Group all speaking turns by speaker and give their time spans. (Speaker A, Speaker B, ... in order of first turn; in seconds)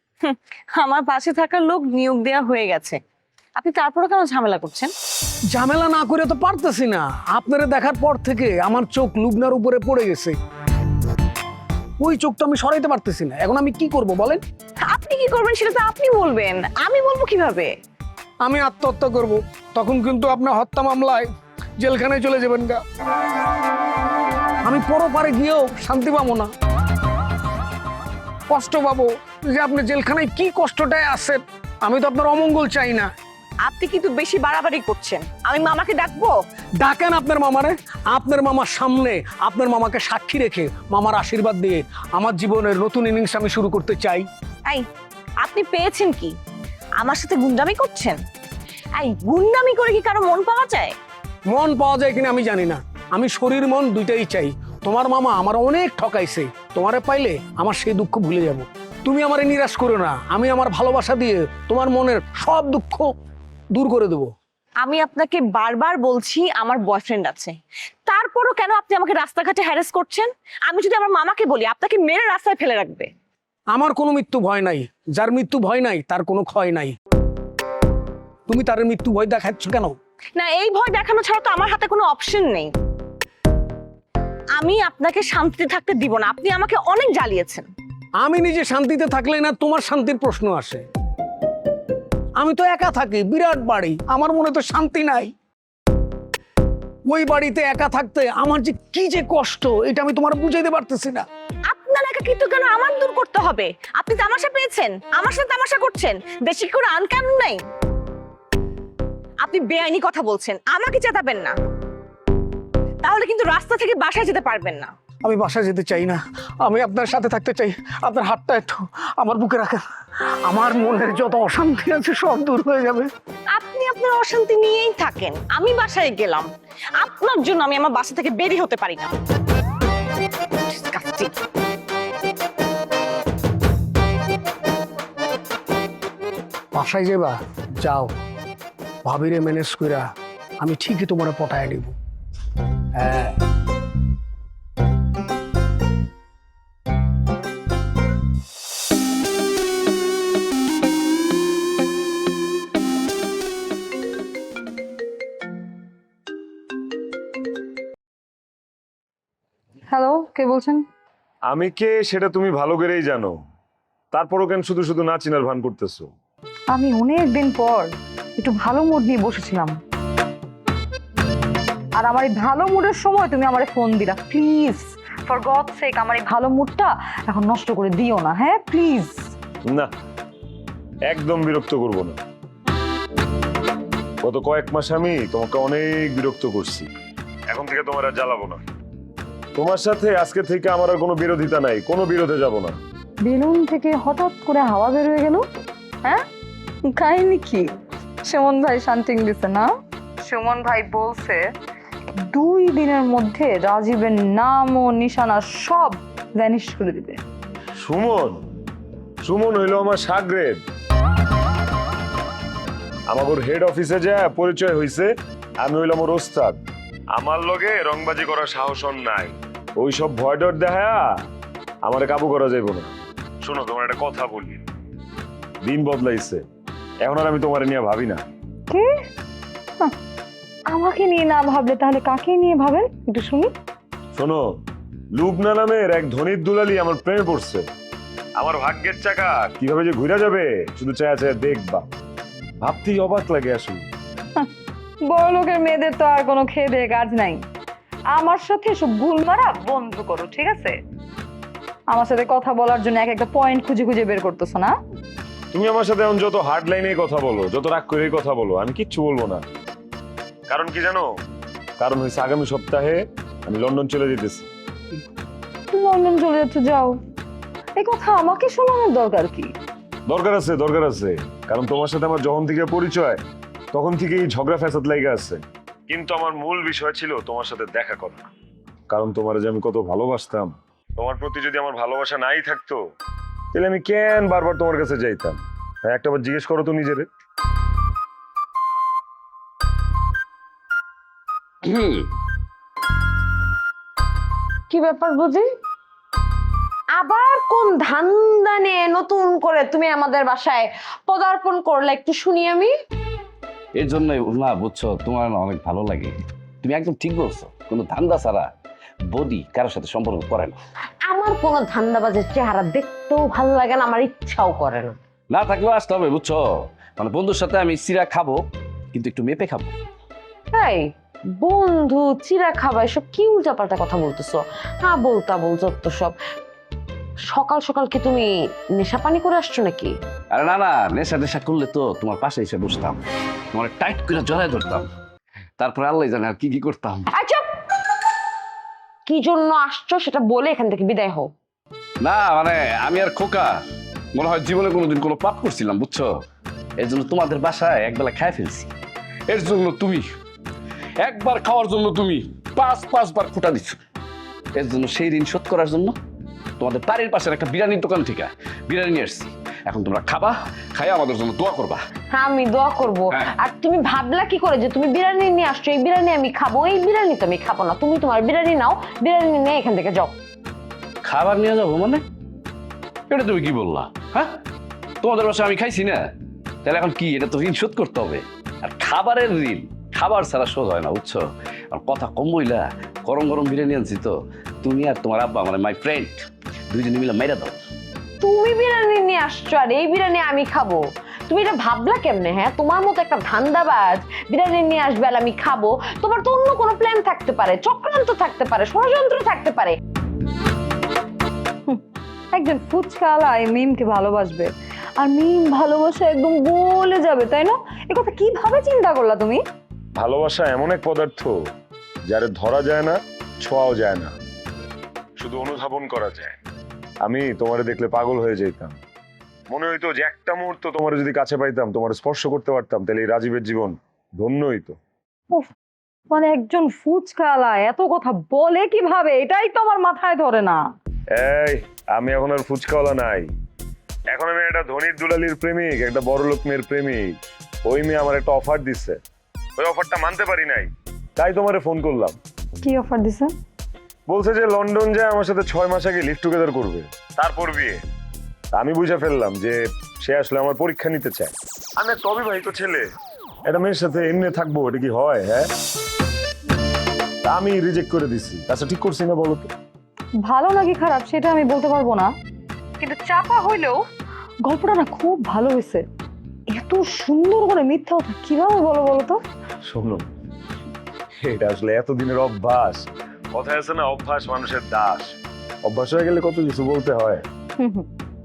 Speaker A: 0.2-3.0, 3.6-4.9, 14.8-17.7, 33.6-36.4, 45.4-46.4, 47.0-48.2, 49.0-50.9, 64.8-73.1, 80.4-82.7, 84.5-87.7, 101.7-107.6, 109.4-111.5, 113.0-114.9, 123.5-126.5, 127.0-129.1, 130.7-131.4
Speaker B: 5.5-10.4, 12.0-14.4, 18.4-21.3, 21.8-22.8, 24.6-26.5, 28.5-33.1, 36.8-44.3, 51.5-63.1, 63.8-64.3, 73.7-77.0, 78.5-80.0, 88.2-90.8, 92.4-95.3, 97.1-101.3, 115.2-119.8, 120.5-123.1, 136.7-138.1, 139.1-141.9, 143.0-143.4
Speaker C: 159.9-160.8, 166.7-169.7, 171.9-179.2, 193.2-195.4, 196.8-197.7, 198.2-199.7, 200.2-201.4, 202.2-207.2, 228.7-229.0, 230.7-233.5, 245.1-247.4, 248.1-250.8, 251.9-254.8, 265.7-267.0, 267.8-269.5, 402.3-409.4, 426.1-430.6, 442.6-443.3, 460.2-462.1, 462.8-463.8, 464.4-465.8, 466.5-469.2, 477.6-477.9
Speaker D: 161.5-163.4, 164.1-166.1, 181.1-182.2, 184.2-186.9, 187.5-188.6, 189.6-192.8, 207.8-208.4, 209.2-210.6, 213.1-215.1, 215.6-216.6, 217.2-221.3, 221.8-224.6, 225.6-226.4, 227.0-228.2, 234.2-234.6, 235.2-237.7, 238.4-241.9, 242.6-243.9, 255.5-259.4, 260.5-261.1, 261.8-264.5, 270.1-273.2, 273.7-278.3, 278.9-282.8, 283.5-287.1, 410.0-411.4, 412.1-414.1, 415.2-416.4, 417.0-418.8, 419.5-424.8, 431.1-433.3, 434.1-437.1, 437.7-439.0, 439.6-442.2, 444.1-447.8, 448.5-452.9, 453.5-455.5, 457.3-459.5, 469.7-470.0, 471.2-475.1, 475.7-477.2
Speaker E: 291.6-292.1, 303.8-308.5, 309.1-310.6, 315.3-319.7, 330.3-333.0, 333.5-334.9, 335.6-337.1, 342.0-343.6, 344.1-346.1, 346.8-348.7, 349.3-350.0, 351.0-353.8, 354.6-356.0, 356.6-361.8, 371.1-372.0, 373.1-374.4, 375.0-376.1, 376.6-387.6
Speaker F: 294.7-295.5, 297.0-302.7, 311.1-315.0, 320.5-326.2, 327.3-329.9, 337.2-337.5, 339.1-341.3, 362.1-370.2, 388.2-399.8